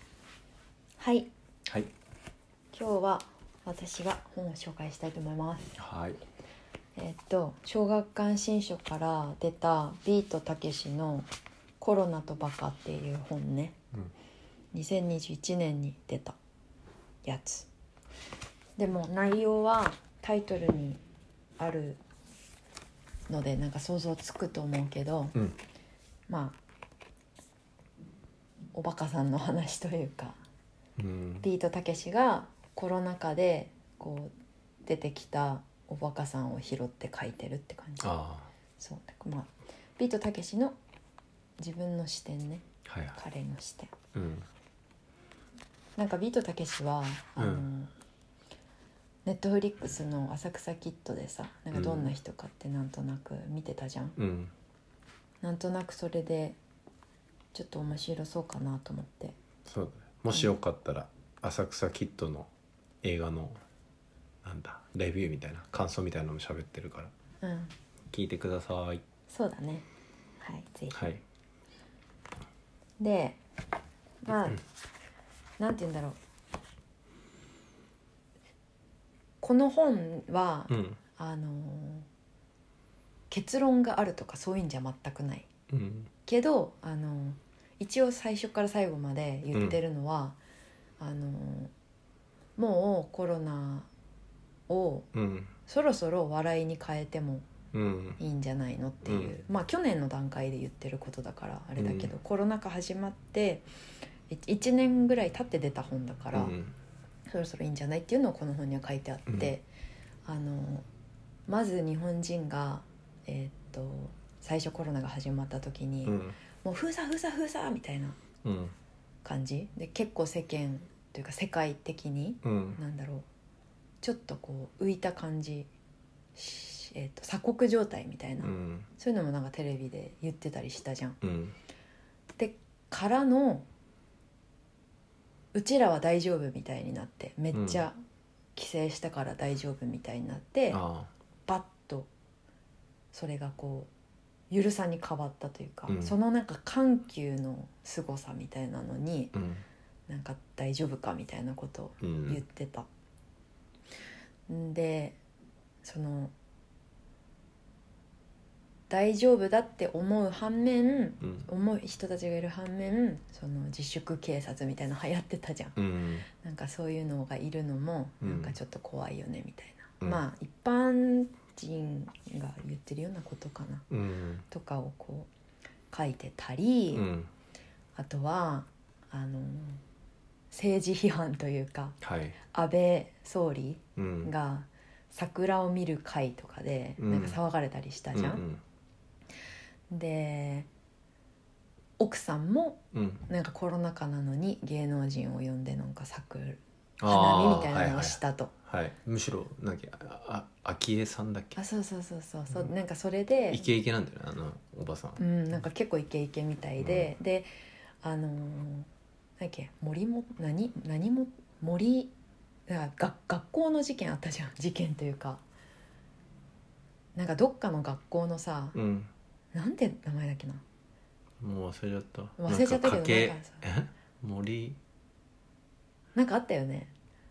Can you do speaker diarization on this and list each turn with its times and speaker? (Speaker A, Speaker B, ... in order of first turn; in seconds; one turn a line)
Speaker A: 1.0-1.3
Speaker A: 2.7-5.7
Speaker B: 5.8-6.2
Speaker A: 7.0-11.3
Speaker A: 11.8-13.8
Speaker A: 14.7-16.4
Speaker A: 17.2-17.7
Speaker A: 18.8-21.0
Speaker A: 21.6-22.0
Speaker A: 23.3-25.4
Speaker A: 26.3-26.6
Speaker A: 28.7-30.4
Speaker B: 31.0-31.5
Speaker A: 31.4-34.3
Speaker A: 34.9-38.1
Speaker B: 38.0-38.5
Speaker A: 38.8-40.8
Speaker A: 41.6-42.6
Speaker B: 42.9-43.2
Speaker A: 43.1-43.9
Speaker B: 44.1-44.5
Speaker A: 46.0-47.9
Speaker B: 47.4-47.7
Speaker A: 49.2-54.2
Speaker B: 51.7-52.1
Speaker B: 54.2-54.5
Speaker A: 55.4-56.6
Speaker A: 57.5-59.4
Speaker B: 59.7-62.5
Speaker B: 63.0-63.6
Speaker B: 64.4-67.1
Speaker A: 67.4-67.8
Speaker B: 68.1-69.0
Speaker A: 69.3-69.9
Speaker A: 70.4-71.0
Speaker B: 70.9-71.2
Speaker A: 73.0-73.4
Speaker A: 74.2-74.6
Speaker A: 75.6-76.2
Speaker A: 79.4-82.1
Speaker B: 80.7-81.0
Speaker A: 83.3-85.5
Speaker B: 85.7-86.1
Speaker A: 86.3-90.4
Speaker B: 89.5-89.8
Speaker A: 91.0-91.7
Speaker A: 92.6-93.9
Speaker A: 94.7-95.1
Speaker B: 95.1-95.5
Speaker A: 95.7-97.5
Speaker B: 97.7-98.2
Speaker A: 98.2-103.7
Speaker B: 99.0-99.3
Speaker B: 101.8-102.1
Speaker A: 104.3-106.6
Speaker B: 106.3-106.7
Speaker A: 107.3-109.7
Speaker B: 109.3-109.5
Speaker A: 110.3-110.9
Speaker A: 111.5-118.2
Speaker B: 116.1-116.4
Speaker B: 118.4-118.8
Speaker A: 119.2-123.3
Speaker B: 122.4-122.8
Speaker A: 124.0-125.7
Speaker A: 126.3-131.2
Speaker B: 128.4-128.9
Speaker B: 131.2-131.6
Speaker A: 132.4-133.7
Speaker A: 135.5-138.0
Speaker B: 137.5-137.8
Speaker A: 138.6-140.8
Speaker B: 140.7-141.1
Speaker A: 141.5-142.1
Speaker A: 143.1-143.9
Speaker A: 144.5-149.3
Speaker B: 145.9-146.2
Speaker B: 149.3-149.7
Speaker A: 150.1-152.9
Speaker B: 152.0-152.4
Speaker A: 154.5-155.2
Speaker A: 155.8-156.3
Speaker A: 158.9-173.9
Speaker B: 161.2-161.5
Speaker B: 165.8-166.2
Speaker B: 168.2-168.6
Speaker B: 173.9-174.4
Speaker A: 174.5-175.3
Speaker A: 175.9-177.1
Speaker B: 176.9-177.3
Speaker A: 178.0-179.8
Speaker A: 180.5-188.4
Speaker B: 182.0-182.4
Speaker B: 184.0-184.3
Speaker B: 187.0-187.4
Speaker B: 188.1-188.6
Speaker A: 189.9-190.7
Speaker A: 192.0-198.5
Speaker B: 192.9-193.3
Speaker B: 197.0-201.6
Speaker A: 201.6-203.7
Speaker B: 203.5-205.2
Speaker A: 205.2-207.5
Speaker B: 206.8-207.1
Speaker A: 208.0-208.9
Speaker A: 209.4-212.1
Speaker A: 212.7-215.4
Speaker A: 217.2-218.8
Speaker B: 218.7-219.1
Speaker A: 219.5-220.6
Speaker B: 221.4-224.8
Speaker A: 222.4-223.6
Speaker A: 226.2-226.9